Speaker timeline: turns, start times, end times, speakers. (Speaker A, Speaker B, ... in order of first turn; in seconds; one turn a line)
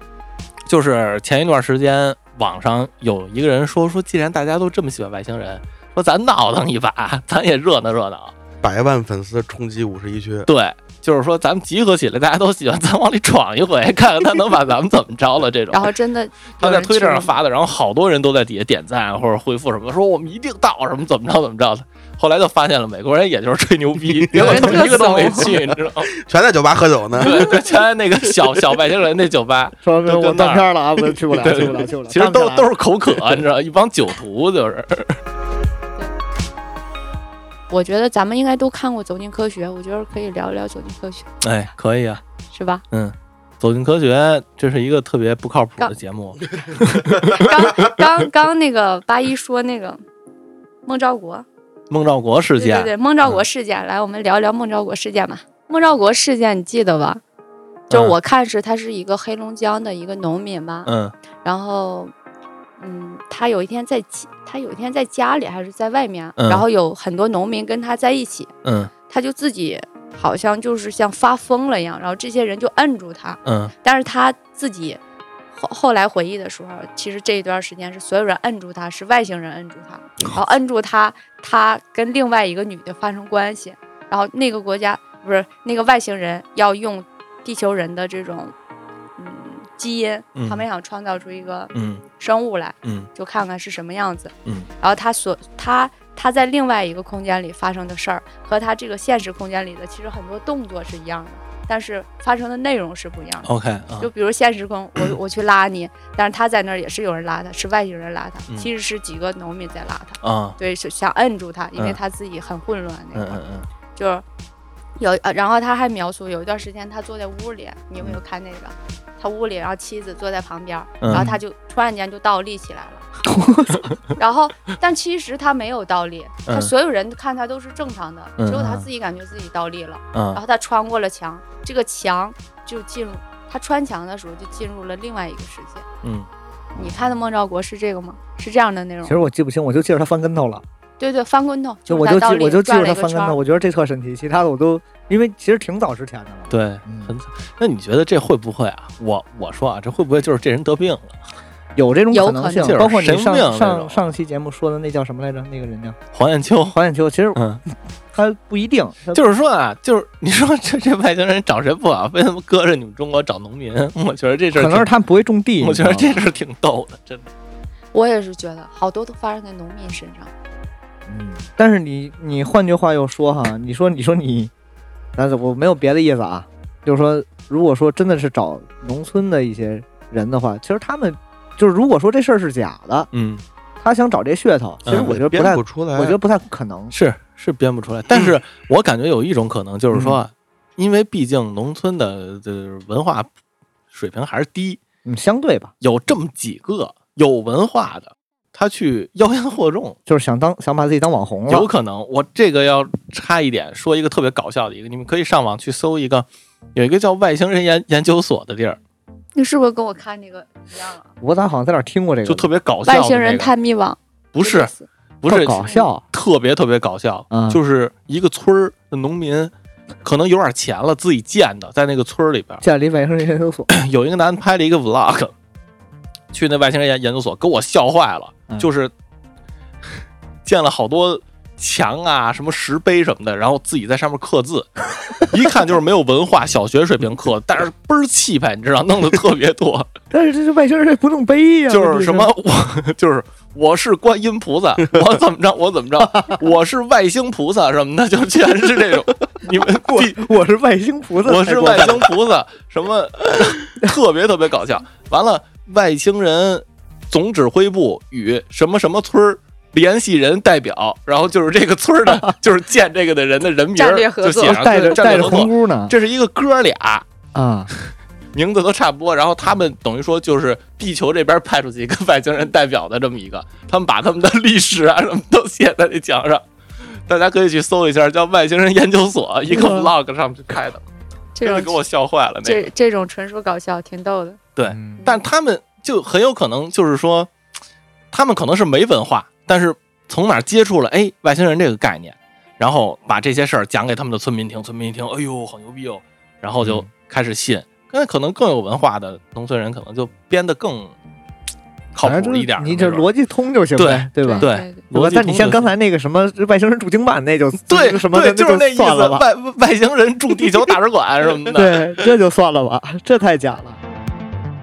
Speaker A: 0.7-8.3
Speaker B: 8.6-10.5
Speaker A: 10.5-15.9
Speaker C: 15.7-17.3
Speaker A: 16.6-26.1
Speaker B: 24.2-24.8
Speaker C: 24.3-25.5
Speaker B: 25.4-27.8
Speaker A: 27.2-35.2
Speaker D: 29.8-33.4
Speaker C: 37.7-41.3
Speaker A: 41.4-42.2
Speaker C: 42.5-42.8
Speaker A: 42.9-48.0
Speaker C: 47.3-50.0
Speaker C: 50.8-51.5
Speaker A: 51.9-53.4
Speaker C: 52.5-57.2
Speaker A: 57.9-58.1
Speaker C: 57.9-60.9
Speaker A: 60.9-61.1
Speaker C: 61.4-62.1
Speaker C: 62.8-68.5
Speaker A: 66.4-66.6
Speaker A: 68.6-68.9
Speaker C: 69.1-75.0
Speaker A: 73.4-73.7
Speaker C: 75.5-88.5
Speaker C: 89.2-113.4
Speaker A: 90.3-90.6
Speaker A: 91.7-92.0
Speaker A: 92.8-93.1
Speaker A: 103.4-104.1
Speaker A: 110.2-110.6
Speaker A: 113.1-113.7
Speaker C: 113.9-114.2
Speaker C: 115.0-123.0
Speaker A: 121.0-121.3
Speaker D: 121.1-121.4
Speaker D: 123.2-123.9
Speaker C: 124.2-135.8
Speaker A: 128.4-128.8
Speaker A: 130.1-130.4
Speaker A: 136.0-136.3
Speaker C: 136.8-139.2
Speaker D: 139.0-140.6
Speaker C: 141.0-143.4
Speaker D: 141.9-147.1
Speaker A: 146.5-151.2
Speaker D: 151.8-156.0
Speaker C: 152.1-152.8
Speaker A: 152.6-154.0
Speaker A: 156.1-156.8
Speaker D: 156.7-157.4
Speaker A: 157.3-157.6
Speaker D: 158.1-159.2
Speaker A: 159.1-164.9
Speaker D: 164.5-166.2
Speaker A: 165.6-167.3
Speaker C: 167.9-170.3
Speaker D: 171.1-174.5
Speaker D: 175.2-183.1
Speaker A: 183.1-183.4
Speaker D: 183.8-186.9
Speaker A: 184.8-185.2
Speaker B: 184.9-186.2
Speaker A: 186.9-193.3
Speaker D: 189.9-190.2
Speaker A: 193.9-194.8
Speaker D: 195.0-195.7
Speaker A: 195.8-200.0
Speaker D: 200.1-201.7
Speaker A: 201.5-208.8
Speaker C: 209.3-211.1
Speaker D: 211.2-212.5
Speaker A: 212.2-213.5
Speaker C: 212.8-214.9
Speaker A: 214.3-214.7
Speaker A: 215.2-219.5
Speaker D: 215.2-216.0
Speaker D: 217.3-217.6
Speaker A: 220.0-222.6
Speaker D: 222.6-223.7
Speaker A: 223.7-225.3
Speaker A: 226.3-228.9
Speaker A: 230.4-239.9
Speaker D: 240.1-242.3
Speaker A: 241.7-250.3
Speaker D: 249.8-252.1
Speaker A: 251.2-267.1
Speaker C: 263.8-265.3
Speaker D: 264.4-265.9
Speaker D: 267.3-267.7
Speaker A: 268.3-276.4
Speaker A: 277.1-280.8
Speaker D: 279.5-279.9
Speaker C: 281.3-281.7
Speaker A: 281.4-282.6
Speaker C: 282.4-284.4
Speaker A: 284.6-287.3
Speaker D: 284.7-285.0
Speaker A: 288.1-300.9
Speaker D: 296.6-296.9
Speaker A: 301.9-303.1
Speaker D: 302.0-309.2
Speaker A: 303.8-305.7
Speaker C: 304.2-304.8
Speaker A: 307.7-311.9
Speaker D: 311.5-313.8